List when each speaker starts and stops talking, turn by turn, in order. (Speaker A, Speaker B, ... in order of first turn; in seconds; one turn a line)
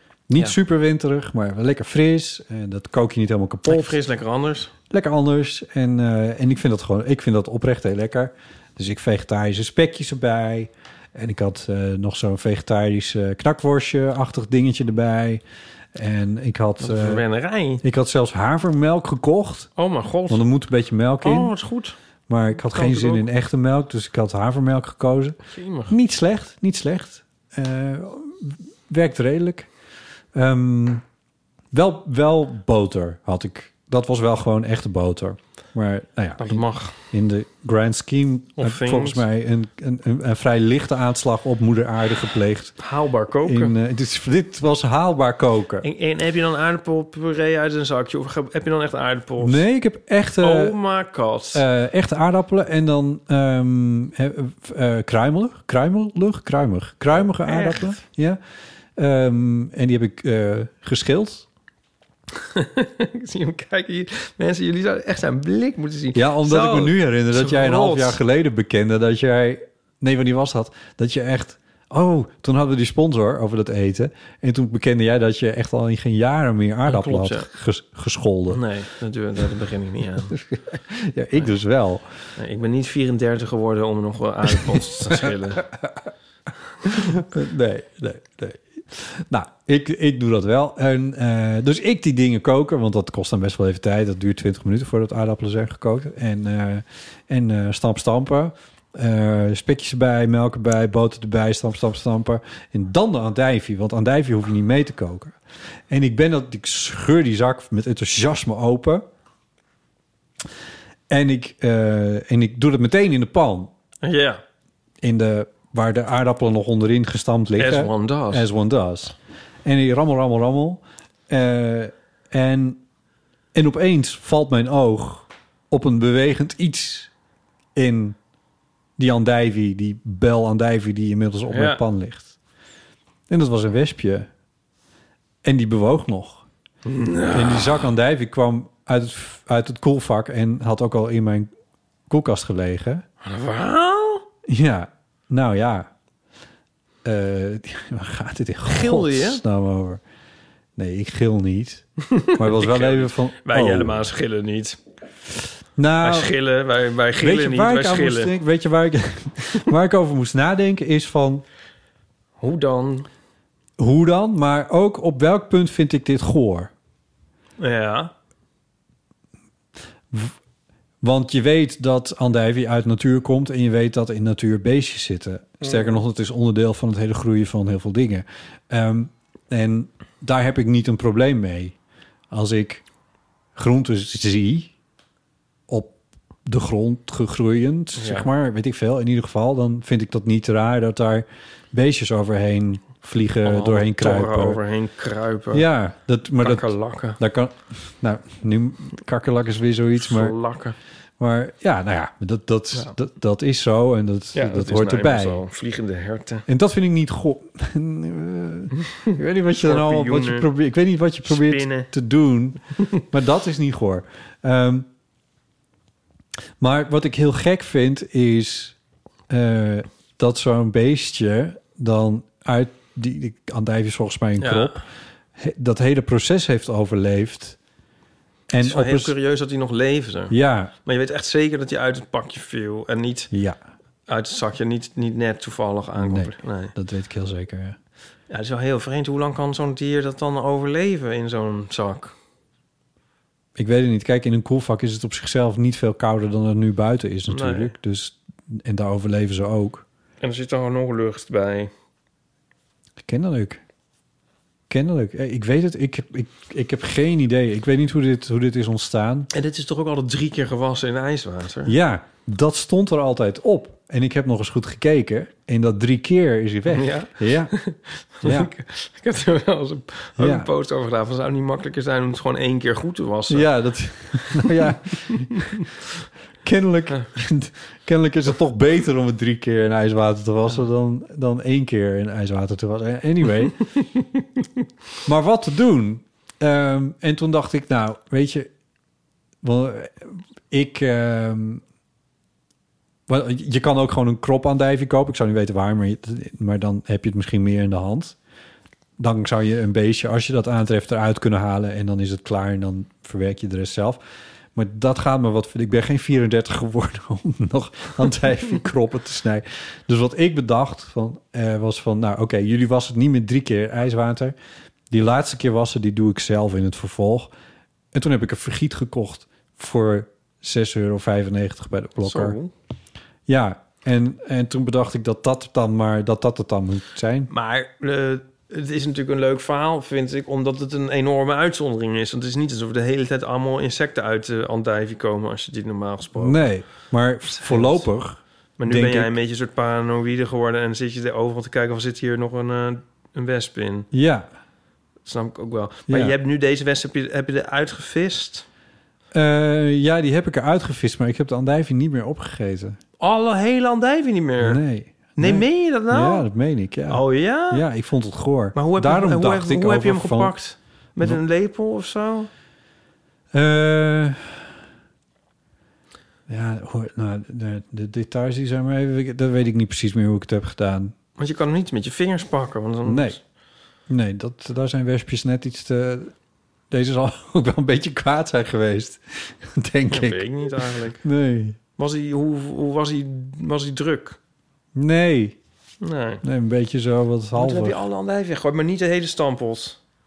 Speaker A: 0.3-4.0
Speaker B: 3.7-4.7
Speaker A: 4.9-15.4
Speaker A: 15.9-17.2
Speaker B: 16.8-17.8
Speaker A: 17.8-19.7
Speaker B: 19.8-20.4
Speaker A: 20.3-21.5
Speaker B: 21.2-21.9
Speaker A: 22.3-29.7
Speaker B: 22.6-23.3
Speaker B: 25.5-25.9
Speaker A: 30.3-31.0
Speaker A: 31.7-42.8
Speaker B: 36.4-37.0
Speaker B: 38.6-39.2
Speaker B: 42.8-43.7
Speaker A: 43.4-45.9
Speaker B: 45.8-49.6
Speaker A: 49.4-50.8
Speaker B: 50.4-51.6
Speaker A: 51.5-58.4
Speaker B: 57.1-58.0
Speaker A: 59.0-61.5
Speaker B: 62.4-68.2
Speaker A: 66.1-78.6
Speaker B: 76.8-77.5
Speaker B: 78.5-80.4
Speaker A: 80.3-82.0
Speaker B: 82.4-85.6
Speaker A: 84.7-85.9
Speaker A: 86.8-105.3
Speaker A: 105.9-109.1
Speaker A: 111.1-113.7
Speaker B: 114.0-114.4
Speaker A: 115.0-122.8
Speaker B: 117.6-118.5
Speaker A: 123.5-127.1
Speaker A: 127.7-128.2
Speaker A: 129.0-132.3
Speaker B: 131.5-131.8
Speaker A: 133.3-134.3
Speaker A: 135.4-136.4
Speaker B: 136.8-137.9
Speaker A: 137.3-141.5
Speaker A: 142.1-143.0
Speaker B: 143.2-144.2
Speaker A: 144.5-145.9
Speaker A: 147.0-150.0
Speaker B: 148.7-149.4
Speaker A: 150.8-154.0
Speaker B: 152.1-154.8
Speaker A: 155.8-156.3
Speaker B: 156.0-158.3
Speaker A: 157.2-161.4
Speaker B: 162.4-163.1
Speaker A: 163.8-166.7
Speaker B: 167.6-168.1
Speaker A: 171.0-181.8
Speaker A: 182.3-182.8
Speaker A: 183.5-184.7
Speaker A: 185.7-194.6
Speaker B: 187.9-188.3
Speaker B: 193.4-195.7
Speaker A: 195.5-200.3
Speaker B: 196.4-197.2
Speaker B: 200.0-200.8
Speaker A: 201.2-205.4
Speaker B: 204.3-206.4
Speaker A: 206.5-214.9
Speaker B: 209.1-210.5
Speaker B: 211.2-211.9
Speaker A: 216.6-218.8
Speaker A: 219.3-224.8
Speaker B: 224.4-224.8
Speaker A: 225.3-227.6
Speaker A: 228.5-229.1
Speaker B: 228.6-233.3
Speaker A: 230.3-230.7
Speaker A: 233.3-233.6
Speaker B: 234.1-236.7
Speaker A: 236.0-237.8
Speaker B: 238.3-242.1
Speaker A: 243.6-249.8
Speaker B: 247.3-247.7
Speaker B: 250.2-251.7
Speaker A: 253.0-253.6
Speaker A: 254.7-259.3
Speaker B: 259.3-261.8
Speaker A: 261.6-267.5
Speaker B: 266.7-273.5
Speaker A: 268.2-268.5
Speaker A: 270.2-270.5
Speaker A: 273.3-275.6
Speaker B: 274.2-274.6
Speaker B: 275.4-275.6
Speaker A: 276.4-283.6
Speaker A: 285.0-288.5
Speaker A: 289.4-291.6
Speaker A: 293.1-298.1
Speaker A: 299.0-304.0
Speaker A: 304.5-314.4
Speaker A: 314.9-317.3
Speaker A: 317.9-322.4
Speaker B: 322.0-322.5
Speaker A: 323.3-327.3
Speaker B: 327.3-336.4
Speaker A: 336.1-339.1
Speaker B: 337.3-337.9
Speaker B: 338.6-343.9
Speaker A: 343.9-344.3
Speaker B: 345.0-348.4
Speaker A: 345.9-346.1
Speaker A: 349.1-352.8
Speaker B: 353.0-354.6
Speaker A: 354.4-360.4
Speaker B: 355.1-356.3
Speaker B: 356.9-357.6
Speaker B: 358.5-362.3
Speaker A: 363.3-364.4
Speaker A: 366.3-370.9
Speaker B: 371.2-373.2
Speaker A: 372.8-373.2
Speaker A: 373.9-376.1
Speaker A: 376.7-381.6
Speaker B: 379.9-381.0
Speaker B: 381.8-384.2
Speaker A: 384.7-385.4
Speaker B: 385.8-386.2
Speaker A: 386.2-387.8
Speaker B: 387.3-389.8